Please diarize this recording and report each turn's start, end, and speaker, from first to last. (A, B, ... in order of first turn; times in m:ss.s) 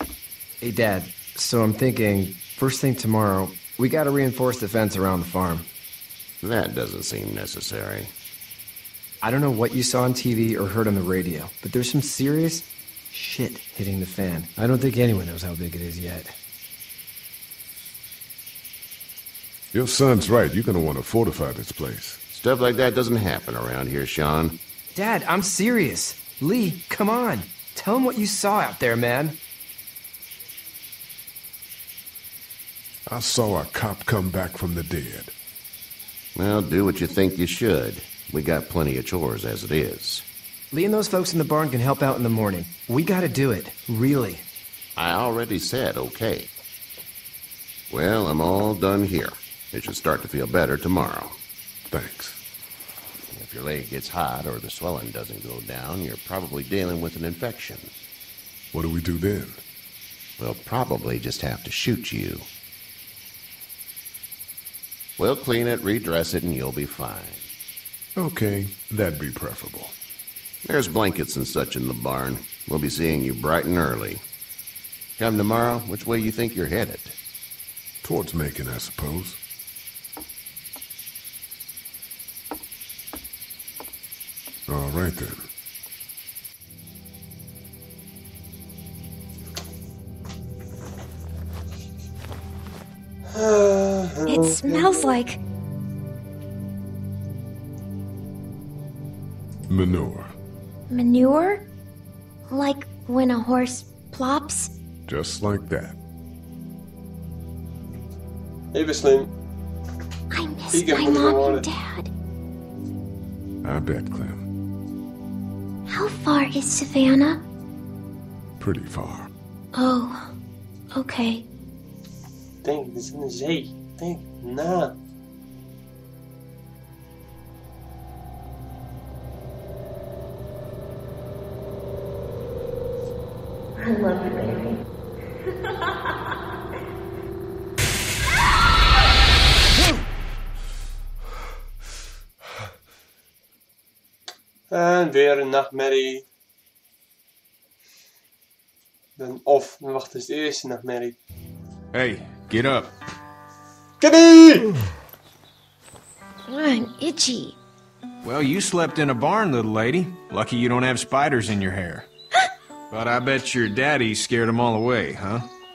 0:00.6-0:05.7 A
0:06.4-0:08.1 B
0:09.2-0:16.4 A
0:19.7-0:22.2 C
0:22.3-0:24.6 B
0:24.9-0:29.4 A
0:33.1-0:35.3 C
0:36.4-0:40.3 B
0:40.7-0:44.4 A
0:45.0-0:46.5 B
0:47.9-0:51.4 B
0:51.9-0:52.4 C
0:53.3-0:57.9 B
0:58.7-0:59.6 C
1:00.4-1:02.5 B
1:05.2-1:07.5 B
1:08.2-1:09.9 C
1:10.7-1:14.2 B
1:15.2-1:17.2 B
1:18.0-1:19.4 C
1:24.7-1:25.5 C
1:33.3-1:35.1 D
1:34.3-1:35.4 E
1:39.7-1:40.3 C
1:40.9-1:41.7 E
1:42.5-1:44.7 E
1:45.1-1:46.0 C
1:48.7-1:49.3 D
1:50.3-1:52.1 E
1:50.7-1:51.6 D
1:53.6-1:54.5 C
1:55.9-1:57.4 E
1:58.6-1:59.3 C
1:59.7-2:00.3 E
2:00.9-2:01.4 E
2:02.6-2:04.9 D
2:24.7-2:26.3 D
2:29.2-2:31.2 D
2:31.9-2:32.9 F
2:34.0-2:34.7 D
2:36.5-2:37.6 E
2:38.2-2:42.1 F
2:42.9-2:45.5 F